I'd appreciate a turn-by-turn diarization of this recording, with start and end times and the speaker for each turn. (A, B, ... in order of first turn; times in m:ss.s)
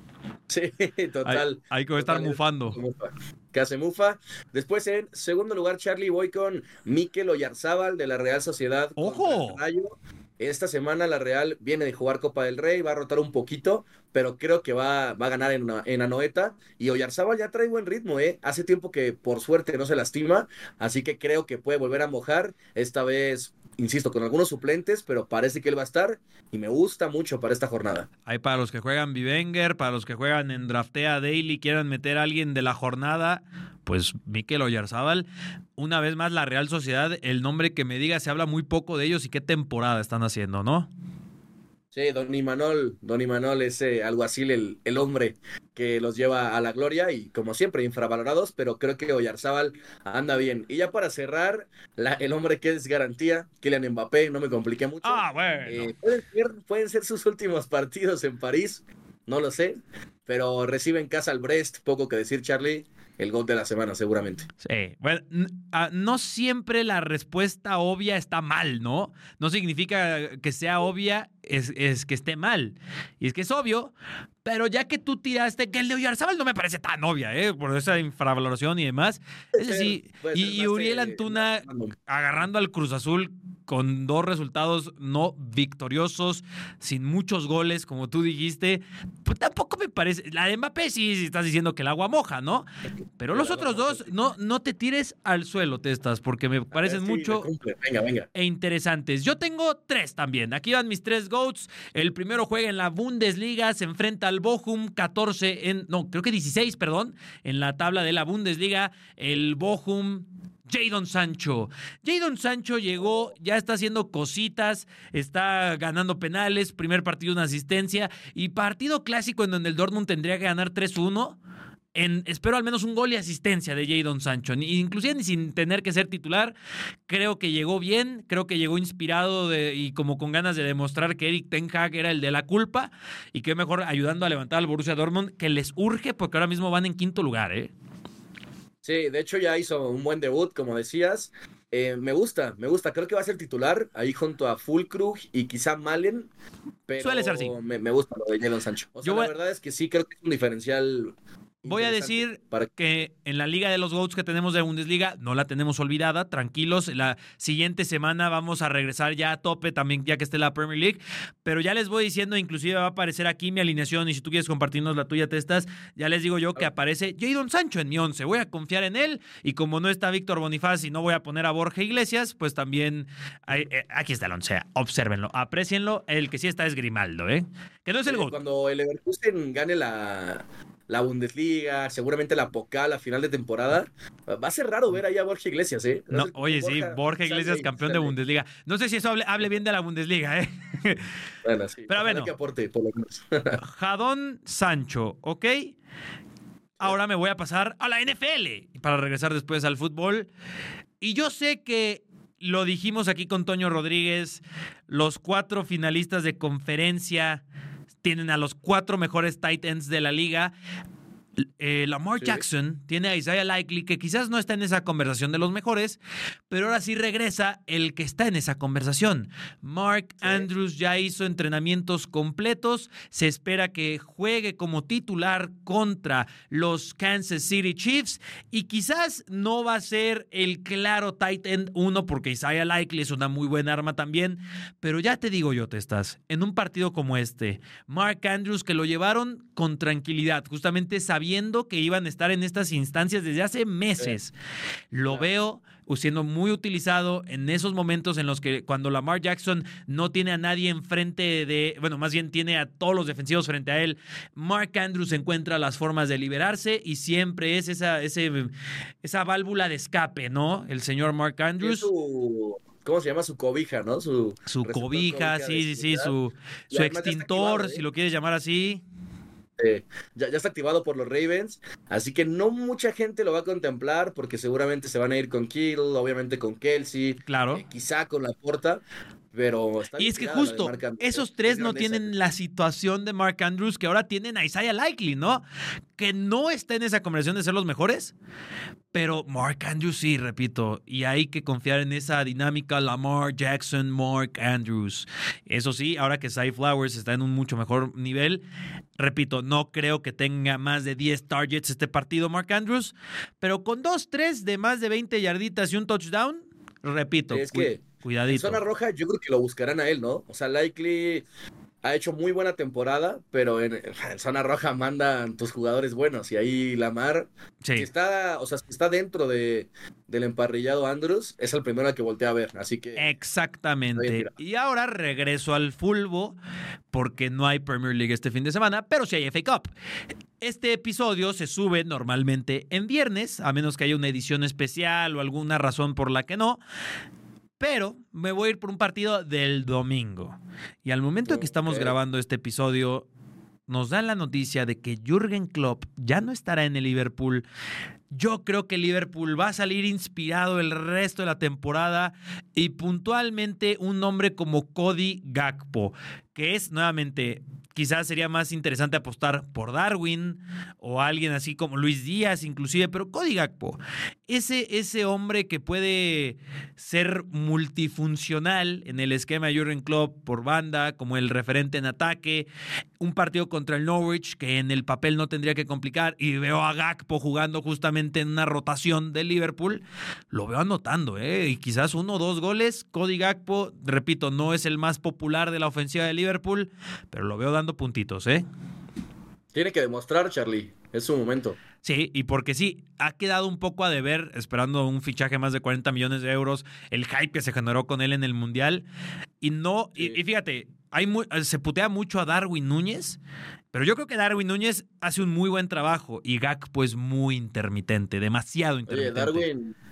0:00.5-0:28.1 A
0:01.2-0:02.8 B
0:09.0-0:09.6 B
0:28.2-0:40.9 B
0:41.9-1:04.4 A
0:55.0-0:55.9 B
1:04.6-1:13.9 B
1:14.4-1:32.6 B
1:19.5-1:21.9 A
1:33.2-1:37.5 B
1:33.3-1:34.1 A
1:36.7-1:38.3 A
1:38.3-2:01.4 B
2:01.9-2:06.5 B
2:07.1-2:17.7 B
2:18.8-2:26.3 A
2:26.9-2:32.7 A
2:27.0-2:27.5 B
2:29.0-2:29.3 B
2:31.7-2:58.4 B
2:58.1-3:08.1 A
3:06.1-3:11.0 B
3:11.4-3:13.6 A
3:11.9-3:12.3 B
3:13.6-3:15.7 B
3:16.8-3:20.3 B
3:21.0-3:27.4 B
3:28.0-3:30.5 B
3:31.6-4:04.3 B
3:32.2-3:32.4 A
3:40.2-3:40.5 A
4:04.9-4:18.5 B
4:19.0-4:21.9 B
4:21.6-4:26.1 A
4:24.5-4:28.8 B
4:26.7-4:27.8 A
4:29.6-4:42.1 A
4:37.2-4:37.6 B
4:40.0-4:45.4 B
4:46.0-4:48.1 B
4:48.9-4:58.4 B
4:59.0-5:08.6 B
5:07.3-5:11.2 A
5:11.8-5:23.1 A
5:23.0-5:26.4 B
5:24.0-5:24.3 A
5:26.9-5:29.7 B
5:30.4-5:36.6 B
5:37.6-5:43.0 B
5:41.2-5:41.9 A
5:43.7-5:47.4 B
5:48.1-6:12.5 B
6:13.0-6:28.4 B
6:29.5-6:31.6 A
6:31.8-6:38.8 B
6:39.4-6:43.2 B
6:43.7-6:49.4 B
6:48.9-6:49.7 A